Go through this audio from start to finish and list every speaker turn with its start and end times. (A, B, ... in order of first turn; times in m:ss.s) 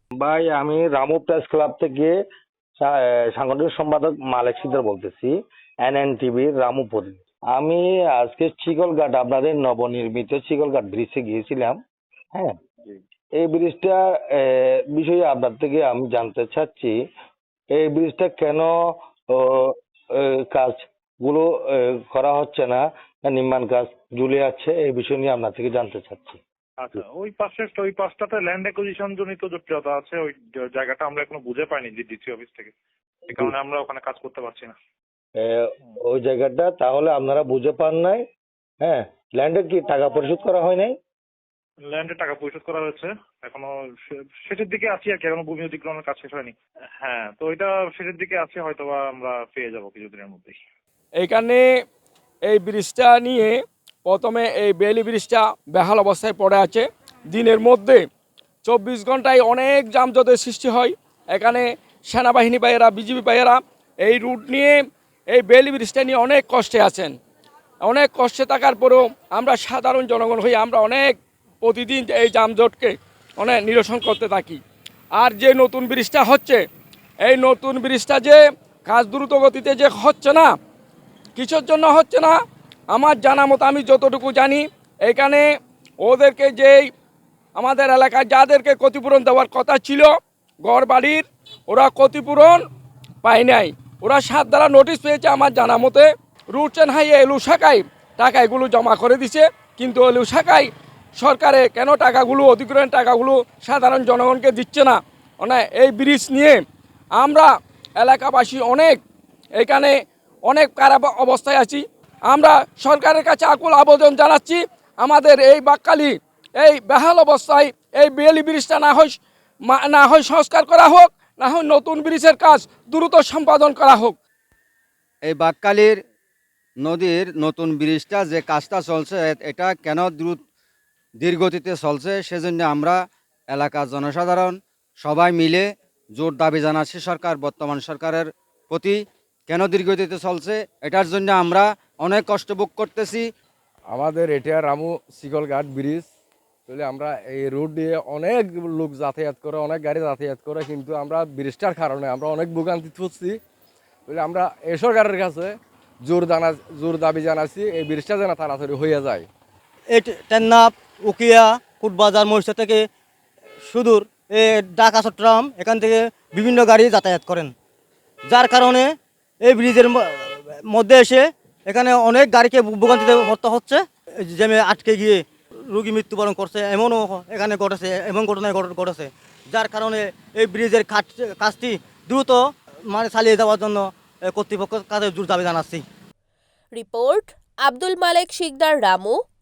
0:00.2-0:02.1 A
0:02.8-0:11.8 A
0:13.4-0:16.9 A
0:17.7-0:18.7 A
0:19.3-0:26.4 A
0:26.8-0:32.7 B
0:33.3-0:34.7 B
0:35.4-0:38.2 A
0:38.8-0:40.9 A
0:41.9-0:43.7 B
0:44.5-0:50.6 B
0:51.2-0:51.6 C
0:52.5-0:58.0 C
0:58.6-1:04.8 C
1:05.3-1:07.1 C
1:07.8-1:14.6 C
1:15.2-1:16.6 C
1:17.2-1:20.5 C
1:21.4-1:22.3 C
1:22.9-1:25.4 C
1:26.0-1:26.8 C
1:27.6-1:30.1 C
1:30.6-1:32.6 C
1:33.2-1:40.7 C
1:41.2-1:46.6 C
1:47.2-1:49.0 C
1:49.6-1:49.9 C
1:50.5-2:04.1 C
2:05.3-2:06.0 D
2:06.8-2:10.4 D
2:11.2-2:13.0 D
2:13.5-2:15.6 D
2:16.2-2:23.2 D
2:23.9-2:26.0 E
2:26.7-2:33.4 E
2:34.1-2:39.3 E
2:39.9-2:42.8 F
2:43.7-2:47.5 F
2:48.3-3:05.8 F
3:06.7-3:09.2 G